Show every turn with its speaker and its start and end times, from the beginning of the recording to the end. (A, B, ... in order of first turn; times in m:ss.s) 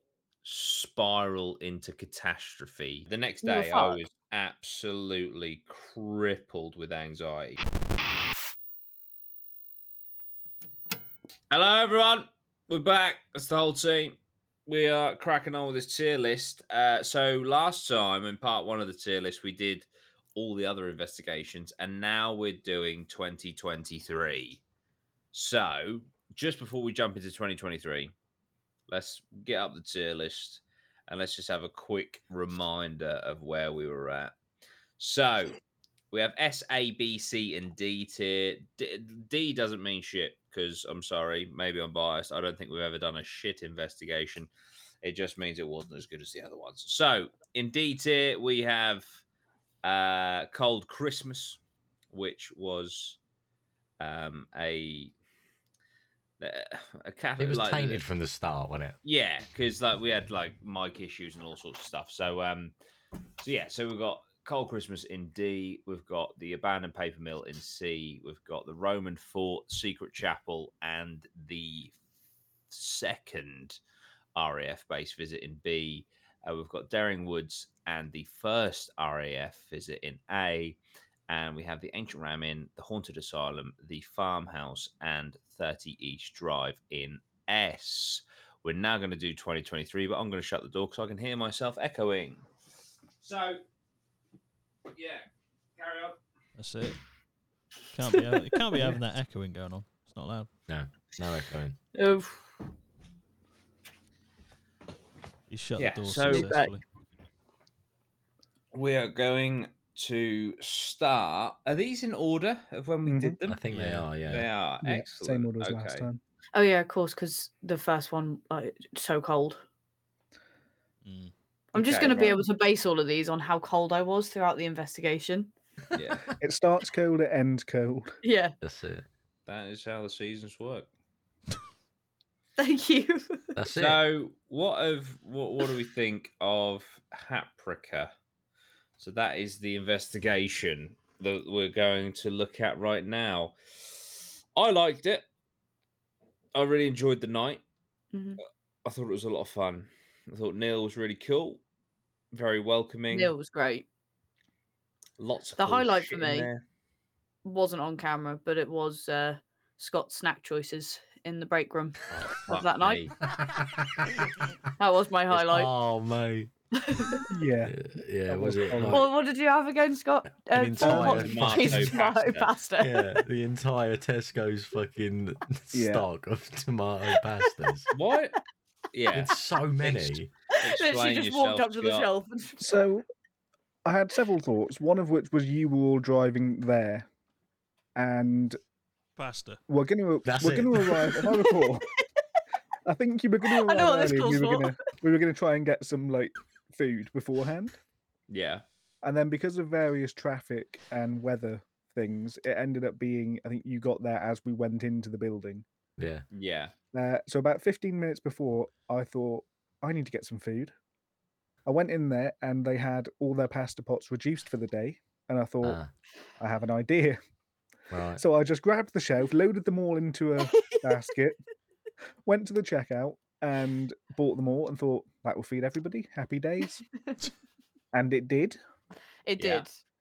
0:00.4-0:07.6 A
0:03.4-0:04.0 B
0:11.5-0:14.2 A
0:14.7-0:24.6 A
0:25.3-0:28.1 A
0:28.9-0:34.3 A
0:35.0-0:35.6 A
0:36.1-0:44.5 A
0:45.0-0:49.0 A
0:49.8-0:51.6 A
0:52.1-0:53.2 A
0:54.0-0:55.1 A
0:56.4-0:58.0 A
0:57.4-0:59.0 C
0:59.0-1:02.7 A
1:03.4-1:11.9 A
1:12.7-1:13.8 A
1:14.4-1:20.8 A
1:21.3-1:32.4 A
1:33.2-1:33.6 A
1:34.9-1:35.2 A
1:35.8-1:36.2 A
1:36.6-1:37.0 D
1:37.9-1:40.5 D
1:38.1-1:38.8 B
1:40.7-1:41.8 C
1:41.9-1:42.5 B
1:45.5-1:46.8 D
1:45.8-1:46.5 A
1:46.2-1:46.8 B
1:48.7-1:53.7 A
1:53.0-1:53.4 E
1:53.5-1:54.5 C
1:53.7-1:54.0 D
1:54.2-1:56.1 A
1:54.8-1:56.2 E
1:56.5-1:59.6 B
2:01.0-2:01.3 D
2:01.7-2:02.4 A
2:01.7-2:05.5 B
2:05.9-2:06.3 A
2:06.4-2:08.2 E
2:08.2-2:08.5 B
2:08.6-2:09.0 C
2:09.4-2:10.9 A
2:12.6-2:13.6 B
2:13.6-2:14.0 C
2:13.8-2:18.1 A
2:19.0-2:23.6 A
2:24.5-2:25.2 A
2:26.5-2:27.6 A
2:28.1-2:28.4 B
2:28.8-2:31.6 A
2:32.3-2:33.3 A
2:33.1-2:33.8 B
2:35.2-2:36.6 A
2:35.6-2:36.5 B
2:37.4-2:43.1 B
2:42.1-2:43.1 A
2:43.3-2:44.4 C
2:44.8-2:45.7 B
2:45.3-2:46.5 C
2:46.7-2:47.3 B
2:47.3-2:47.8 E
2:47.6-2:49.1 C
2:48.3-2:49.0 E
2:48.9-2:53.2 B
2:50.5-2:51.9 C
2:50.8-2:51.4 E
2:50.9-2:52.5 A
2:52.8-2:57.9 C
2:55.7-2:56.0 E
2:57.9-2:58.4 A
2:58.9-3:02.1 A
2:59.1-3:00.3 C
3:00.5-3:02.8 B
3:02.6-3:03.0 E
3:03.8-3:07.1 E
3:08.0-3:08.6 E
3:09.2-3:09.6 D
3:09.7-3:11.9 E
3:10.2-3:11.2 C
3:12.8-3:17.8 E
3:13.5-3:14.8 B
3:18.3-3:18.6 A
3:19.0-3:25.6 E
3:26.0-3:26.2 C
3:26.3-3:26.7 A
3:26.9-3:30.7 E
3:31.6-3:35.8 E
3:35.6-3:35.9 C
3:36.4-3:37.2 E
3:37.9-3:38.2 C
3:38.2-3:41.4 E
3:40.4-3:40.8 B
3:42.2-3:46.8 E
3:47.9-3:48.6 E
3:49.2-3:49.7 B
3:49.4-3:49.6 A